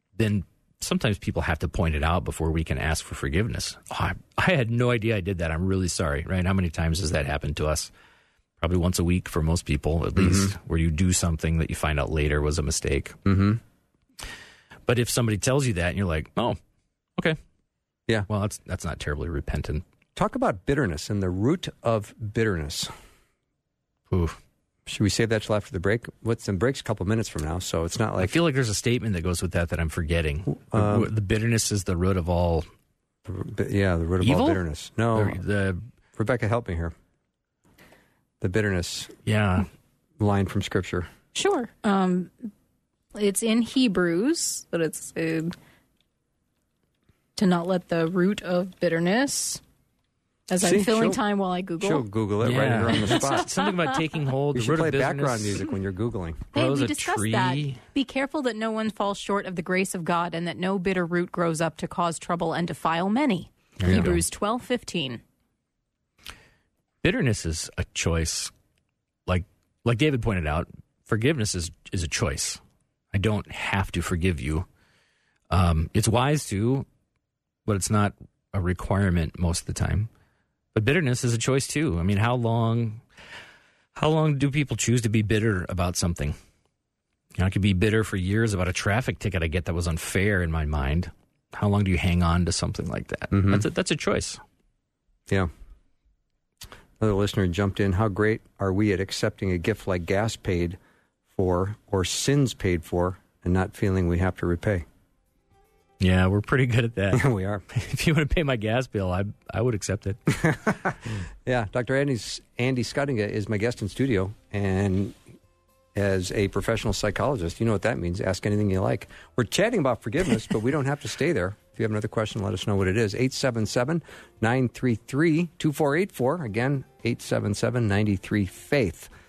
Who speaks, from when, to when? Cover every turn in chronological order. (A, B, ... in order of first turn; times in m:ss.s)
0:00.2-0:07.9 A
0:08.6-0:13.2 A
0:10.2-0:10.5 B
0:13.3-0:13.6 B
0:14.9-0:16.6 A
0:18.3-0:19.8 A
0:20.2-0:22.9 B
0:24.1-0:24.4 A
0:24.9-0:28.3 B
0:28.2-0:32.7 A
0:30.6-0:31.1 B
0:33.3-0:35.4 B
0:34.2-0:34.6 A
0:35.1-0:35.8 A
0:36.2-0:37.0 B
0:38.4-0:39.2 B
0:39.3-0:39.7 A
0:40.2-0:41.1 B
0:41.4-0:42.5 C
0:43.2-0:45.6 C
0:47.4-0:49.6 C
0:50.5-0:52.1 C
0:50.6-0:51.2 B
0:51.8-0:53.5 B
0:52.4-0:55.6 A
0:52.7-0:53.8 C
0:54.6-0:56.5 B
0:56.5-0:57.8 A
0:56.5-1:05.2 C
1:03.8-1:04.2 A
1:07.0-1:08.5 A
1:09.3-1:12.6 A
1:13.1-1:14.7 A
1:15.5-1:16.9 A
1:17.7-1:20.1 A
1:20.7-1:23.0 A
1:24.0-1:26.4 A
1:27.4-1:34.4 A
1:33.3-1:33.6 B
1:37.0-1:40.8 B
1:41.3-1:44.9 B
1:46.0-1:50.2 A
1:47.1-1:47.6 B
1:50.3-1:55.2 B
1:56.0-2:09.1 B